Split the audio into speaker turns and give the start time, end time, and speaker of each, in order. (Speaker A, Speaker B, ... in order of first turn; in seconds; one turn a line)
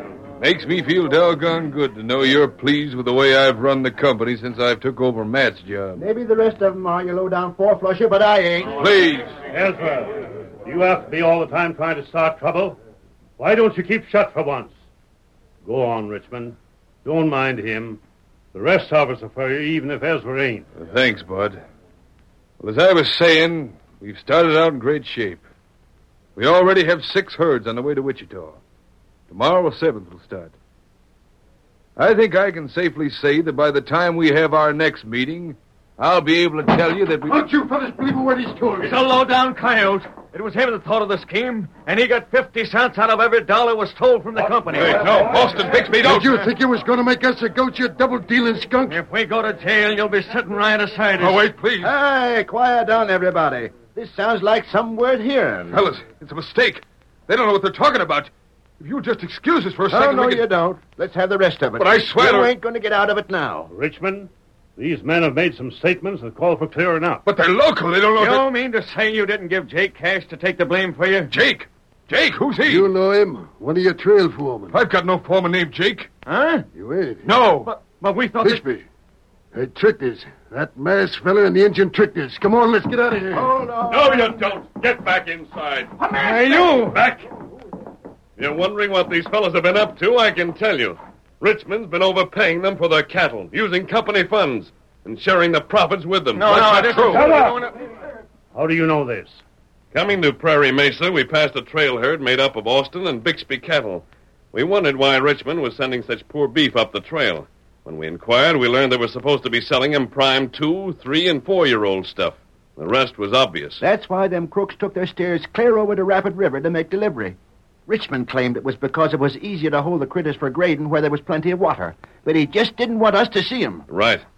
Speaker A: 0.4-6.0
Speaker B: 6.0-8.8
Speaker A: 8.7-9.4
Speaker C: 9.5-12.8
Speaker C: 13.4-14.7
Speaker C: 15.6-18.0
Speaker C: 18.5-20.7
Speaker A: 20.8-21.6
Speaker A: 22.6-25.4
Speaker A: 26.4-28.6
Speaker A: 29.3-30.5
Speaker A: 31.9-37.4
Speaker D: 37.3-39.0
Speaker E: 38.8-45.2
Speaker A: 44.7-46.5
Speaker D: 46.0-49.0
Speaker E: 48.9-51.5
Speaker A: 51.2-51.9
Speaker B: 51.8-55.8
Speaker A: 55.7-60.5
Speaker B: 59.9-63.7
Speaker A: 61.8-62.5
Speaker C: 63.7-67.2
Speaker A: 67.2-68.5
Speaker E: 68.2-71.3
Speaker A: 71.3-72.9
Speaker D: 72.7-74.8
Speaker A: 74.7-76.1
Speaker E: 76.2-76.7
Speaker D: 76.7-77.3
Speaker A: 77.2-77.7
Speaker E: 77.6-78.6
Speaker D: 78.4-78.8
Speaker D: 79.5-83.5
Speaker B: 83.5-84.3
Speaker F: 83.5-86.1
Speaker E: 86.1-87.0
Speaker F: 88.4-97.0
Speaker E: 96.3-97.7
Speaker A: 96.5-97.5
Speaker C: 98.5-99.4
Speaker F: 99.9-113.8
Speaker B: 113.8-123.8
Speaker F: 123.9-124.2